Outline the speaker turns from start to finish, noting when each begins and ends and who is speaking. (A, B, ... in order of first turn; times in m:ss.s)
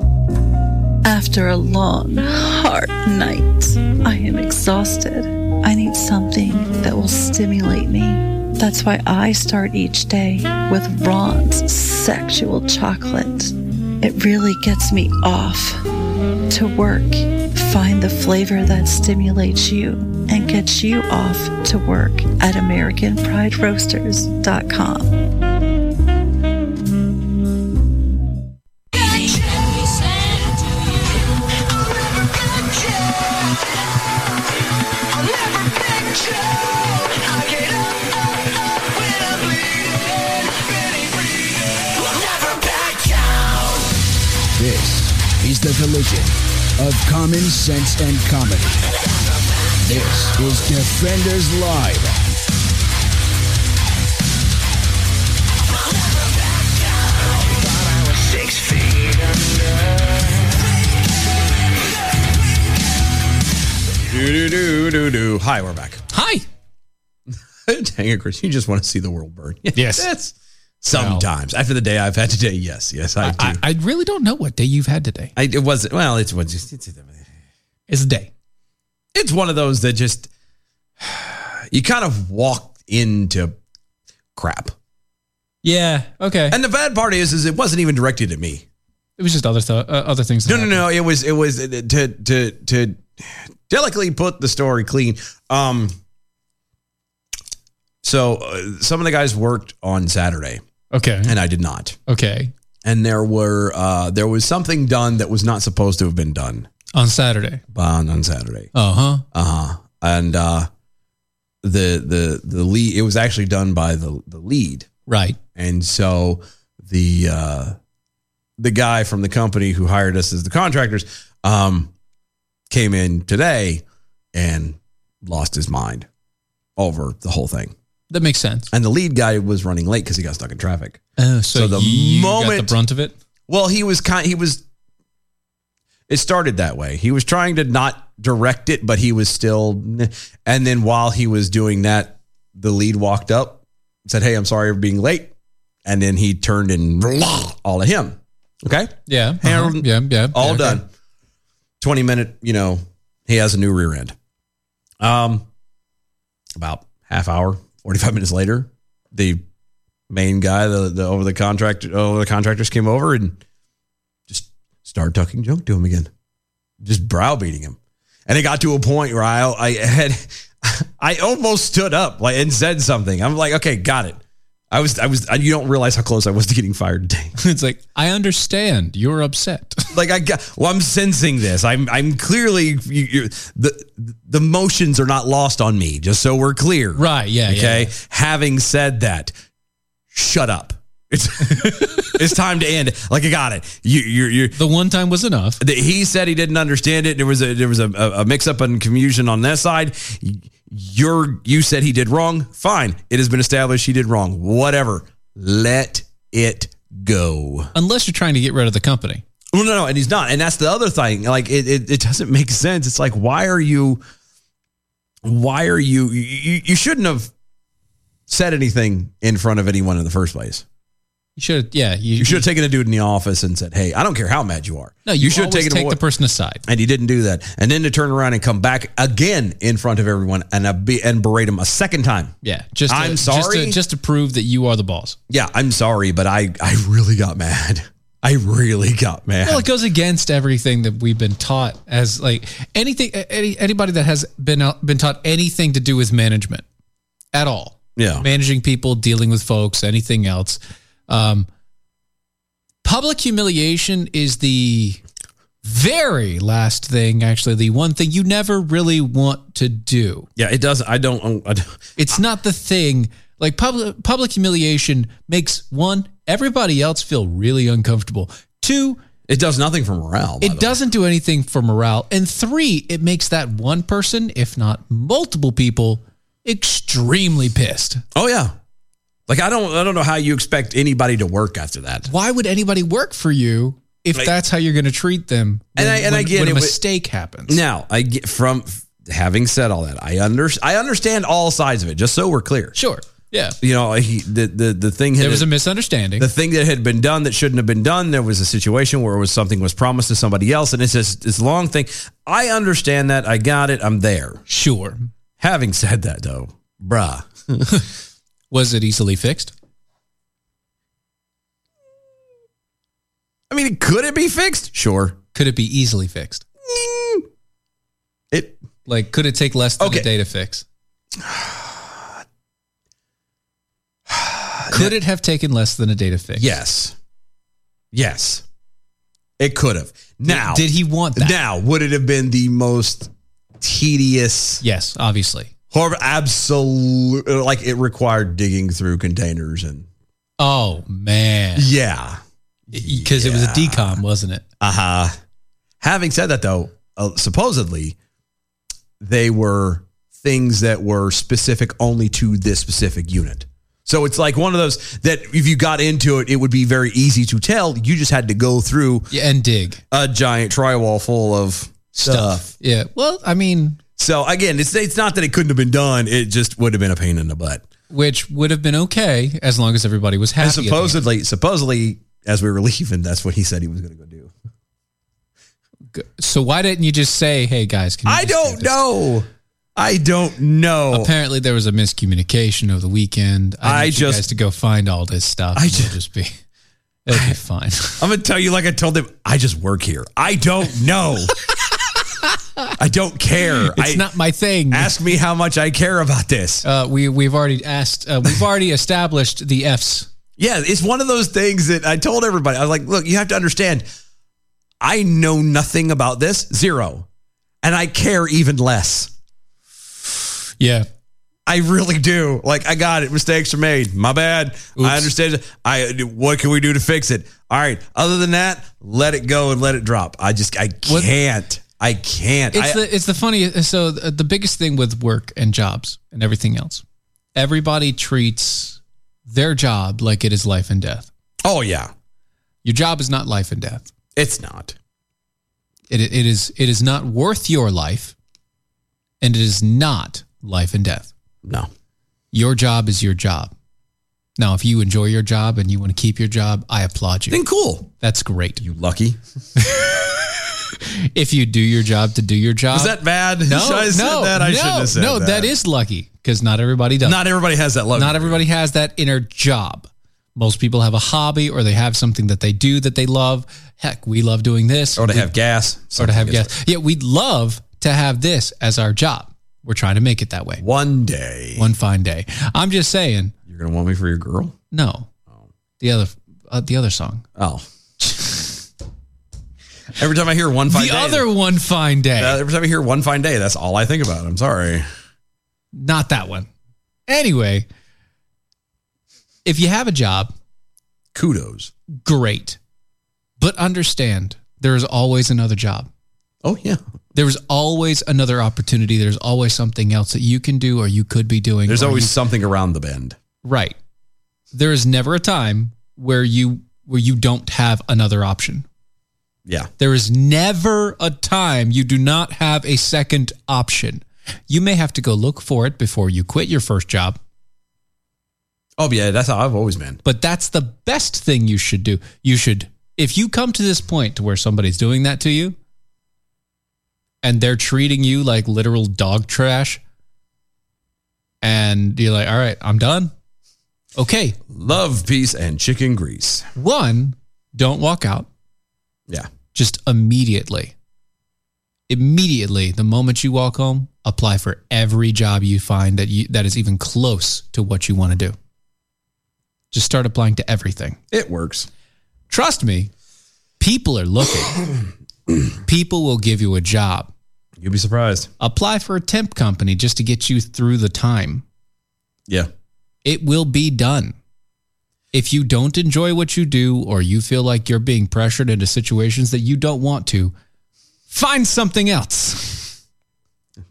0:01.0-0:15.8 A
0:16.5-0:25.2 A
0:44.5-0:48.8 B
0:49.8-0:52.3 B
1:04.0-1:06.0 C
1:06.1-1:06.4 D
1:07.6-1:13.6 C
1:09.7-1:10.1 D
1:10.9-1:11.2 D
1:13.2-1:15.3 D
1:15.4-1:17.3 C
1:17.9-1:18.3 D
1:19.1-1:20.3 C
1:21.0-1:23.6 C
1:24.4-1:24.7 C
1:25.6-1:26.6 D
1:26.5-1:28.6 C
1:29.2-1:30.8 D
1:30.4-1:36.0 C
1:38.0-1:40.6 C
1:40.9-1:41.4 D
1:41.2-1:42.0 C
1:42.1-1:42.5 D
1:42.8-1:46.7 C
1:46.9-1:47.6 D
1:47.7-1:48.7 C
1:48.7-1:49.2 D
1:49.3-1:50.7 C
1:51.6-1:54.9 C
1:55.1-1:55.4 D
1:55.6-1:57.7 C
1:58.6-2:01.9 C
2:02.7-2:06.1 C
2:06.8-2:07.7 C
2:08.1-2:08.7 D
2:08.7-2:11.0 C
2:11.2-2:13.2 D
2:11.5-2:12.7 C
2:13.5-2:14.6 C
2:16.1-2:25.3 C
2:25.8-2:30.9 C
2:29.1-2:30.8 D
2:31.8-2:34.1 C
2:35.0-2:35.4 C
2:36.6-2:39.4 C
2:40.1-2:43.4 C
2:44.3-2:46.1 C
2:46.8-2:54.2 C
2:54.7-2:57.3 C
2:57.4-2:59.9 D
2:59.9-3:09.3 C
3:07.0-3:07.9 D
3:10.1-3:14.6 C
3:11.5-3:12.1 D
3:14.5-3:15.6 D
3:15.6-3:27.7 C
3:27.7-3:29.2 D
3:29.5-3:34.0 C
3:35.2-3:37.3 C
3:38.3-3:40.6 C
3:41.4-3:42.4 D
3:42.2-3:46.0 C
3:45.0-3:46.6 D
3:46.6-3:52.3 C
3:52.4-3:55.2 D
3:52.9-3:53.8 C
3:55.3-3:59.7 C
3:59.4-4:06.6 D
4:07.3-4:11.5 D
4:08.0-4:08.2 C
4:12.8-4:15.0 D
4:15.6-4:20.3 D
4:20.4-4:21.8 C
4:22.0-4:29.0 D
4:29.3-4:30.8 C
4:30.4-4:38.0 D
4:38.1-4:38.5 C
4:39.3-4:42.1 C
4:42.1-4:47.6 D
4:45.8-4:46.8 C
4:47.5-4:52.8 C
4:52.7-4:53.6 D
4:53.6-4:55.5 C
4:55.2-4:56.3 D
4:56.2-5:04.4 C
5:04.5-5:05.1 D
5:05.4-5:07.7 C
5:08.5-5:09.5 D
5:13.5-5:15.2 C
5:15.3-5:16.4 D
5:16.6-5:17.2 C
5:18.3-5:18.6 C
5:18.8-5:20.6 D
5:19.8-5:20.1 C
5:21.2-5:22.2 C
5:24.1-5:25.0 C
5:24.7-5:26.5 D
5:26.4-5:27.0 C
5:27.9-5:28.4 C
5:29.4-5:34.6 C
5:30.2-5:31.4 D
5:34.6-5:35.5 D
5:35.7-5:39.9 C
5:40.4-5:41.7 D
5:41.6-5:42.2 C
5:42.7-5:44.0 C
5:42.7-5:44.4 D
5:44.6-5:45.1 C
5:45.8-5:48.0 C
5:49.0-5:59.1 C
5:59.1-5:59.8 D
5:59.9-6:02.5 C
6:02.0-6:03.8 D
6:04.0-6:07.6 C
6:07.9-6:11.0 D
6:10.4-6:14.3 C
6:15.9-6:18.8 D
6:18.0-6:21.1 C
6:20.9-6:26.3 D
6:23.6-6:24.2 C
6:25.5-6:25.9 C
6:27.0-6:28.0 D
6:27.1-6:27.4 C
6:28.0-6:31.3 C
6:32.2-6:32.7 D
6:32.8-6:34.1 C
6:33.7-6:35.0 D
6:34.7-6:36.6 C
6:36.6-6:40.1 D
6:40.4-6:43.8 C
6:44.8-6:47.0 C
6:47.6-6:49.1 C
6:50.6-6:50.9 D
6:51.5-7:02.8 C
6:54.8-6:55.1 D
7:02.5-7:06.8 D
7:07.3-7:11.1 D
7:11.4-7:11.9 C
7:12.6-7:13.9 D
7:14.2-7:14.7 C
7:15.9-7:18.1 D
7:19.2-7:21.1 D
7:21.4-7:21.7 C
7:22.3-7:23.5 D
7:24.4-7:27.4 D
7:27.3-7:27.9 C
7:28.0-7:28.6 D
7:28.6-7:29.2 C
7:29.6-7:30.1 D
7:30.7-7:37.2 D
7:32.7-7:35.5 C
7:37.0-7:38.4 C
7:37.9-7:45.3 D
7:45.0-7:46.5 C
7:46.0-7:50.6 D
7:50.6-7:51.7 C
7:51.6-7:53.3 D
7:53.5-7:54.5 C
7:54.7-7:55.1 D
7:55.8-7:57.2 D
7:57.4-7:57.6 C
7:58.0-7:58.5 D
8:00.0-8:01.3 C
8:00.7-8:02.4 D
8:02.2-8:04.9 C
8:05.7-8:06.5 D
8:07.1-8:07.6 D
8:09.4-8:10.3 D
8:11.1-8:11.7 C
8:12.0-8:12.6 D
8:13.4-8:15.9 D
8:16.4-8:16.8 C
8:17.1-8:22.1 D
8:21.7-8:23.2 C
8:23.4-8:23.8 D
8:24.5-8:28.6 D
8:29.8-8:37.2 D
8:38.8-8:40.0 C
8:40.0-8:45.6 D
8:47.2-8:49.8 D
8:51.4-8:53.1 D
8:54.0-8:54.4 D
8:54.5-8:56.5 C
8:56.6-8:58.3 D
8:59.5-9:00.7 D
9:01.9-9:08.4 D
9:09.7-9:11.0 D
9:11.1-9:11.7 C
9:12.3-9:12.9 D
9:13.6-9:14.6 D
9:15.6-9:17.1 D
9:17.6-9:18.3 C
9:18.4-9:21.4 D
9:23.0-9:24.2 D
9:25.1-9:30.3 D
9:31.1-9:32.8 D